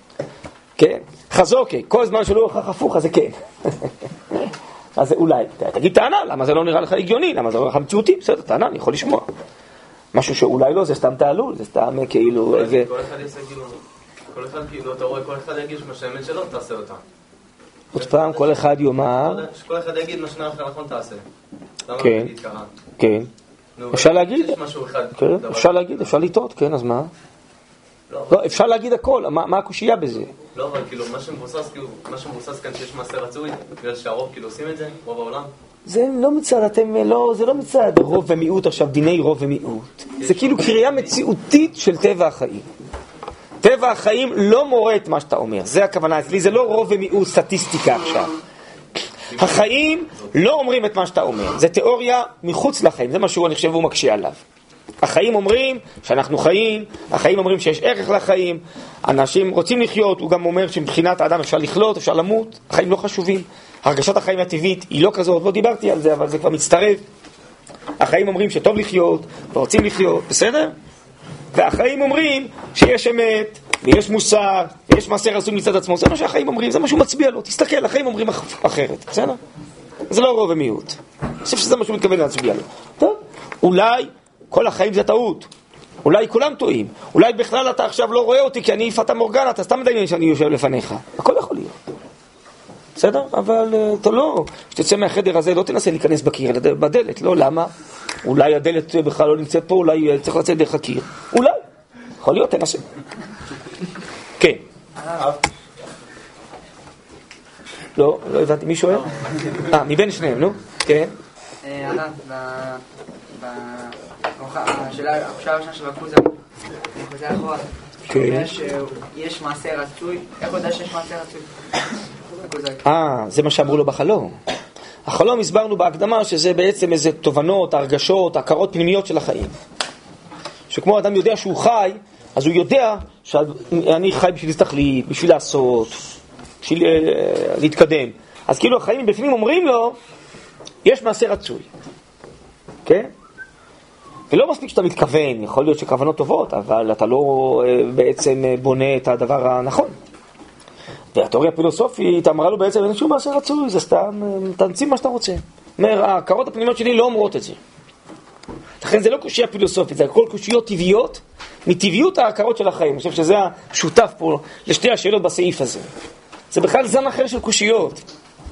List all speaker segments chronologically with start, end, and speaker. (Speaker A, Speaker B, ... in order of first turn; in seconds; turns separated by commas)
Speaker A: 0.8-4.4, Speaker A: 5.0-9.3, Speaker A: 10.1-12.9, Speaker B: 12.4-13.8, Speaker B: 14.3-17.0, Speaker A: 17.9-19.4, Speaker B: 17.9-21.2, Speaker B: 21.9-22.7, Speaker A: 22.0-22.3, Speaker A: 23.0-23.3, Speaker B: 23.8-26.1, Speaker A: 23.9-24.6, Speaker A: 25.2-27.1, Speaker B: 28.1-28.6, Speaker A: 28.3-30.3, Speaker B: 30.5-35.5, Speaker A: 35.9-42.7, Speaker B: 40.2-41.1, Speaker A: 43.6-48.3, Speaker B: 49.3-50.3, Speaker A: 49.4-54.4, Speaker A: 55.0-67.0, Speaker A: 68.0-70.7, Speaker A: 71.5-79.4, Speaker A: 80.1-85.5, Speaker A: 86.0-91.8, Speaker A: 93.0-97.7, Speaker A: 98.2-101.6, Speaker A: 102.2-102.8, Speaker C: 105.0-105.3, Speaker A: 108.0-111.1, Speaker C: 111.6-112.8, Speaker C: 113.3-116.4, Speaker C: 116.9-121.5, Speaker A: 118.1-118.5, Speaker C: 122.3-122.8, Speaker A: 122.8-124.3, Speaker A: 125.1-129.5, Speaker A: 130.7-136.0, Speaker A: 136.6-140.0, Speaker A: 140.8-141.7, Speaker A: 142.8-143.1, Speaker A: 144.3-149.9, Speaker A: 151.1-157.6, Speaker A: 158.8-165.9, Speaker A: 166.5-168.0